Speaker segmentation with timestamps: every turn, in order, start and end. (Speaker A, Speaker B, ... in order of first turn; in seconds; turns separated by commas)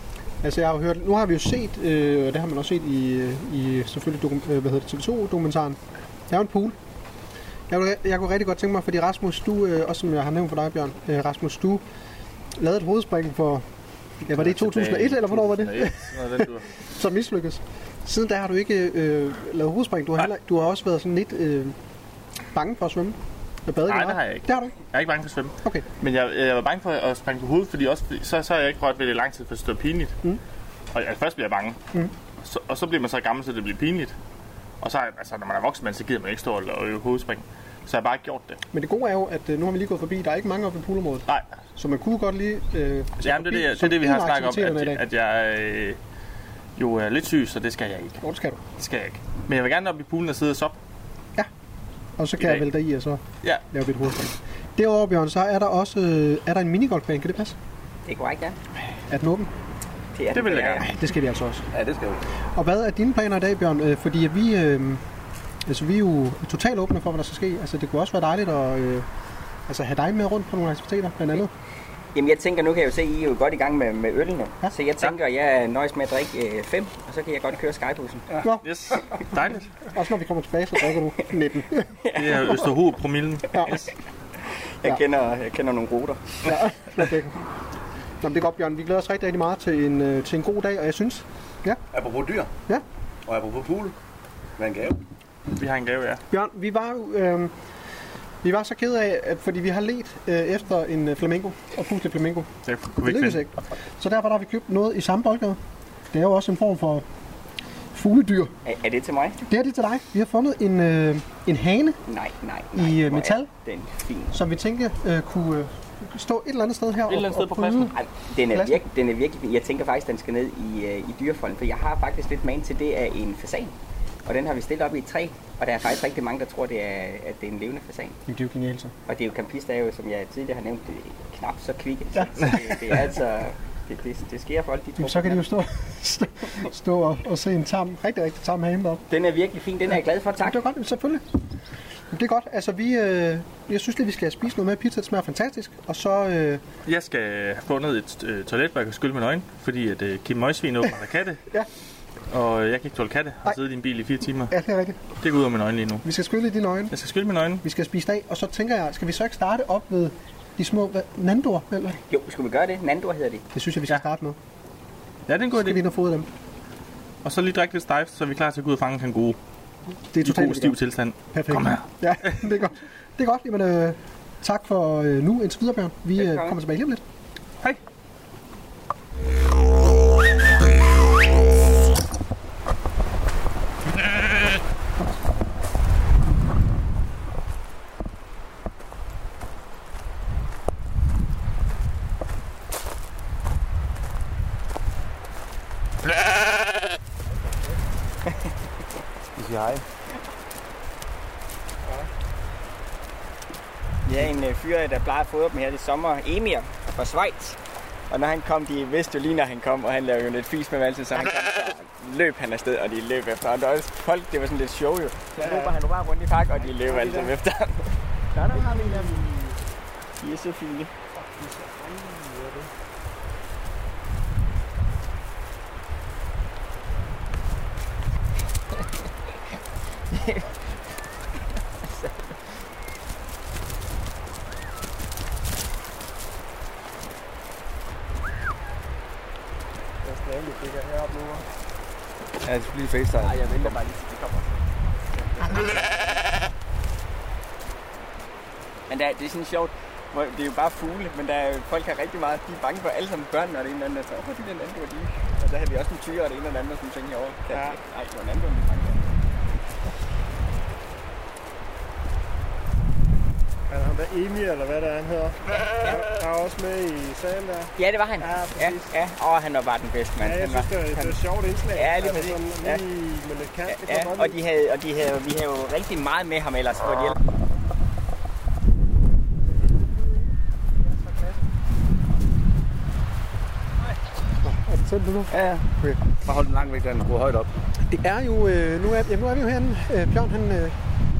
Speaker A: 0.4-6.8, Speaker A: 7.7-11.8, Speaker A: 12.6-13.6, Speaker A: 14.2-16.0, Speaker B: 14.3-16.7, Speaker A: 16.9-21.8, Speaker A: 22.5-24.7, Speaker B: 23.9-30.1, Speaker B: 30.9-31.8, Speaker B: 32.4-34.1, Speaker B: 34.8-38.6, Speaker A: 38.7-45.0, Speaker B: 41.3-41.5, Speaker B: 43.2-46.0, Speaker B: 46.8-48.2, Speaker A: 48.2-48.6, Speaker B: 48.8-50.8, Speaker A: 52.2-57.6, Speaker B: 52.4-52.6, Speaker C: 58.0-58.6, Speaker A: 59.1-59.5, Speaker C: 60.1-60.9, Speaker B: 60.3-60.9, Speaker A: 60.8-61.7, Speaker D: 61.7-62.2, Speaker A: 62.5-65.0, Speaker A: 65.7-69.0, Speaker A: 69.7-71.5, Speaker C: 72.1-78.4, Speaker B: 78.6-79.7, Speaker A: 79.9-81.9, Speaker C: 82.0-82.6, Speaker B: 82.1-83.9, Speaker C: 84.8-86.5, Speaker A: 86.5-87.4, Speaker A: 88.2-91.8, Speaker D: 91.9-92.5, Speaker D: 93.3-94.0, Speaker D: 94.6-95.0, Speaker B: 95.5-96.2, Speaker A: 96.3-97.5, Speaker A: 98.4-102.5, Speaker B: 102.6-103.4, Speaker A: 103.0-105.6, Speaker A: 106.1-107.0, Speaker A: 107.9-108.5, Speaker C: 108.6-109.4, Speaker A: 109.5-112.0, Speaker C: 112.1-114.4, Speaker A: 112.7-113.5, Speaker A: 114.3-117.9, Speaker B: 117.1-117.9, Speaker C: 117.9-128.2, Speaker A: 118.5-118.8, Speaker A: 128.3-128.9, Speaker C: 129.1-135.5, Speaker A: 132.2-133.1, Speaker A: 135.0-139.0, Speaker C: 139.1-140.6, Speaker A: 140.4-141.2, Speaker A: 142.1-146.6, Speaker B: 146.9-151.4, Speaker B: 152.3-154.5, Speaker A: 154.5-155.0, Speaker B: 155.2-156.1, Speaker A: 156.1-156.9, Speaker B: 156.9-157.6, Speaker A: 157.6-162.0, Speaker C: 162.1-163.4, Speaker A: 163.5-164.4, Speaker B: 165.3-165.8, Speaker A: 165.5-166.3, Speaker B: 167.2-169.4, Speaker A: 170.1-170.8, Speaker B: 170.2-172.4, Speaker A: 171.3-177.0, Speaker C: 176.2-176.6, Speaker D: 199.4-199.8, Speaker C: 204.1-219.4, Speaker E: 215.4-215.8, Speaker E: 216.6-217.3, Speaker E: 218.5-219.3, Speaker C: 220.2-220.9, Speaker E: 221.1-222.7, Speaker C: 230.1-230.6, Speaker C: 231.8-232.4, Speaker E: 240.0-241.4, Speaker D: 242.4-243.7, Speaker C: 243.2-244.6, Speaker C: 245.2-246.3, Speaker C: 248.9-259.2, Speaker E: 257.5-257.8, Speaker E: 263.7-268.9, Speaker C: 265.6-266.1, Speaker C: 267.8-272.9, Speaker E: 270.2-274.4, Speaker C: 273.7-277.2, Speaker A: 284.4-286.0, Speaker D: 286.2-287.5, Speaker A: 287.9-290.8